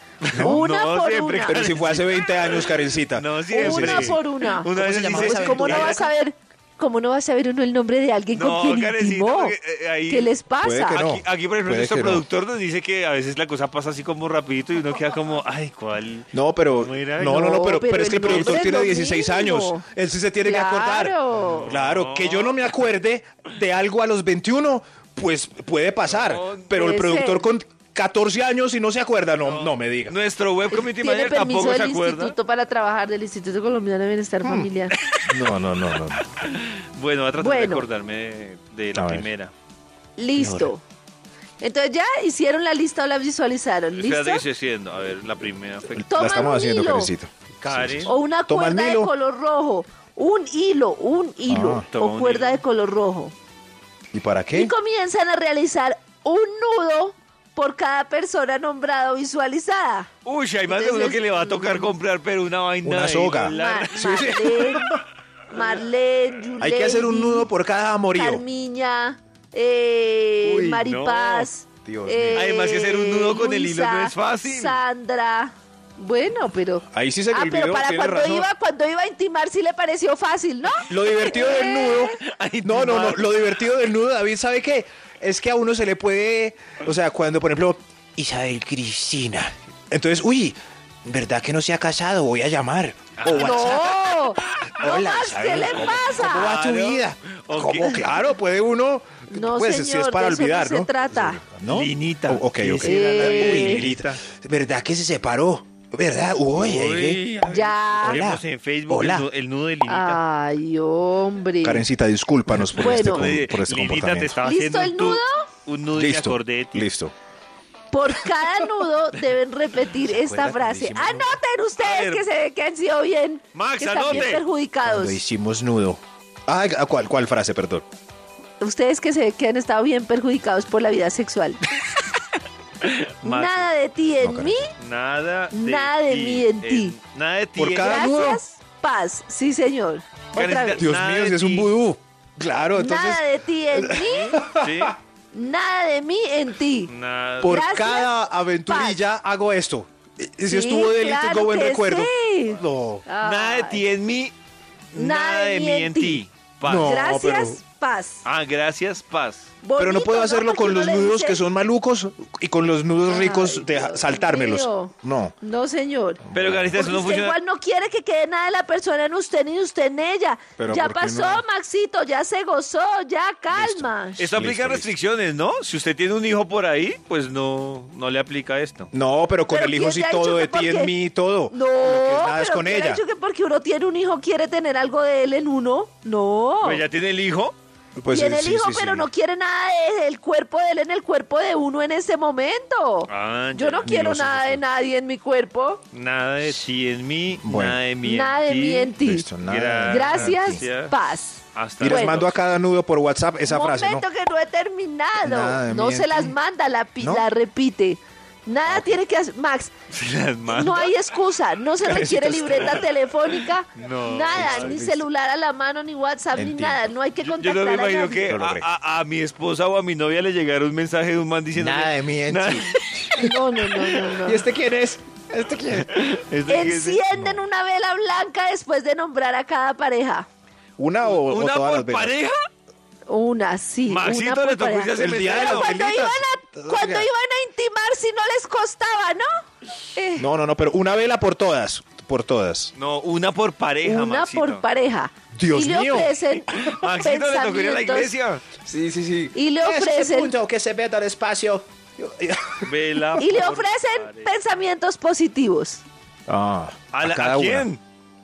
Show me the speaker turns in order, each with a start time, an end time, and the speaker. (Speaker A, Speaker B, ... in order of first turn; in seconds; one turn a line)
Speaker A: 0.2-6.0
Speaker B: 0.3-0.6
Speaker C: 0.4-1.6
Speaker B: 1.4-6.1
Speaker C: 3.5-9.5
Speaker A: 8.3-10.3
Speaker C: 10.1-11.0
Speaker B: 10.6-12.2
Speaker A: 10.9-17.5
Speaker B: 16.3-30.1
Speaker C: 17.2-19.8
Speaker A: 18.2-18.7
Speaker C: 20.4-21.7
Speaker A: 21.4-22.7
Speaker A: 26.1-26.7
Speaker C: 26.7-27.4
Speaker A: 29.4-32.4
Speaker C: 30.7-34.9
Speaker B: 35.2-36.2
Speaker A: 36.2-39.5
Speaker C: 37.4-37.9
Speaker B: 38.9-39.3
Speaker C: 40.2-40.8
Speaker B: 40.4-40.7
Speaker C: 41.6-44.4
Speaker A: 43.9-46.0
Speaker B: 46.0-49.1
Speaker C: 46.1-47.1
Speaker A: 47.6-48.1
Speaker C: 48.0-53.3
Speaker B: 51.5-51.9
Speaker A: 51.9-52.6
Speaker B: 54.1-54.7
Speaker C: 54.5-60.1
Speaker A: 60.2-64.9
Speaker C: 60.7-61.9
Speaker B: 62.8-64.9
Speaker C: 63.4-64.9
Speaker C: 65.5-67.5
Speaker B: 66.6-68.4
Speaker C: 68.1-82.1
Speaker A: 70.4-71.5
Speaker B: 71.8-72.5
Speaker A: 72.3-74.8
Speaker B: 76.9-78.5
Speaker B: 80.9-94.2
Speaker A: 81.9-83.3
Speaker A: 93.2-94.7
Speaker C: 93.4-96.5
Speaker B: 94.8-107.2
Speaker A: 95.5-98.0
Speaker C: 99.3-101.4
Speaker A: 101.6-104.2
Speaker C: 102.8-103.9
Speaker A: 106.5-110.2
Speaker C: 107.4-108.2
Speaker B: 108.0-109.2
Speaker C: 109.8-111.8
Speaker B: 111.6-114.3
Speaker A: 112.7-116.9
Speaker C: 112.8-113.3
Speaker C: 114.4-115.5
Speaker B: 115.9-117.1
Speaker C: 117.9-125.2
Speaker B: 120.0-121.4
Speaker A: 121.8-122.2
Speaker A: 123.5-124.4
Speaker B: 124.8-127.8
Speaker C: 128.6-131.6
Speaker A: 132.8-133.7
Speaker C: 133.2-134.7
Speaker B: 134.2-134.6
Speaker A: 134.8-138.1
Speaker C: 135.5-136.9
Speaker B: 137.6-138.4
Speaker C: 137.8-140.8
Speaker A: 140.3-141.7
Speaker B: 140.8-144.9
Speaker C: 142.7-144.4
Speaker A: 144.0-145.0
Speaker C: 145.3-148.1
Speaker A: 146.9-147.9
Speaker B: 147.4-153.1
Speaker C: 148.7-149.0
Speaker C: 150.4-153.8
Speaker A: 153.2-154.3
Speaker A: 154.9-157.0
Speaker C: 154.9-156.2
Speaker B: 156.6-157.6
Speaker C: 156.8-158.2
Speaker A: 158.2-159.4
Speaker C: 159.6-161.4
Speaker B: 159.8-165.3
Speaker C: 163.1-166.2
Speaker B: 166.2-166.7
Speaker A: 166.3-167.4
Speaker C: 166.7-174.3
Speaker B: 170.6-171.4
Speaker B: 173.5-174.9
Speaker A: 174.2-178.9
Speaker B: 178.9-183.0
Speaker C: 179.5-180.9
Speaker C: 181.5-186.8
Speaker A: 186.6-187.5
Speaker B: 188.0-189.1
Speaker C: 188.1-195.8
Speaker A: 193.1-193.9
Speaker B: 193.8-194.6
Speaker A: 195.9-200.9
Speaker B: 197.4-197.8
Speaker C: 198.0-199.2
Speaker B: 199.0-200.7
Speaker C: 199.9-202.2
Speaker A: 201.5-202.4
Speaker B: 201.8-204.1
Speaker C: 203.4-209.7
Speaker B: 205.2-206.3
Speaker B: 207.0-207.3
Speaker B: 208.7-209.0
Speaker A: 209.9-211.0
Speaker C: 210.5-218.3
Speaker B: 211.8-212.9
Speaker A: 213.8-214.8
Speaker B: 214.3-215.1
Speaker B: 216.3-216.9
Speaker A: 217.2-224.1
Speaker B: 218.3-218.7
Speaker B: 221.5-223.3
Speaker C: 223.1-224.4
Speaker B: 224.2-225.9
Speaker A: 225.9-227.0
Speaker C: 226.5-230.3
Speaker B: 227.1-227.4
Speaker B: 230.8-232.2
Speaker A: 231.0-232.4
Speaker C: 233.1-239.4
Speaker A: 233.9-235.8
Speaker B: 235.0-237.1
Speaker C: 239.9-240.3
Speaker B: 240.2-242.7
Speaker A: 242.7-244.6
Speaker C: 243.8-248.1
Speaker B: 245.3-246.2
Speaker A: 246.5-248.4
Speaker B: 248.6-252.6
Speaker C: 249.3-250.3
Speaker A: 252.6-254.3
Speaker C: 253.2-255.8
Speaker B: 256.3-257.7
Speaker A: 256.9-257.8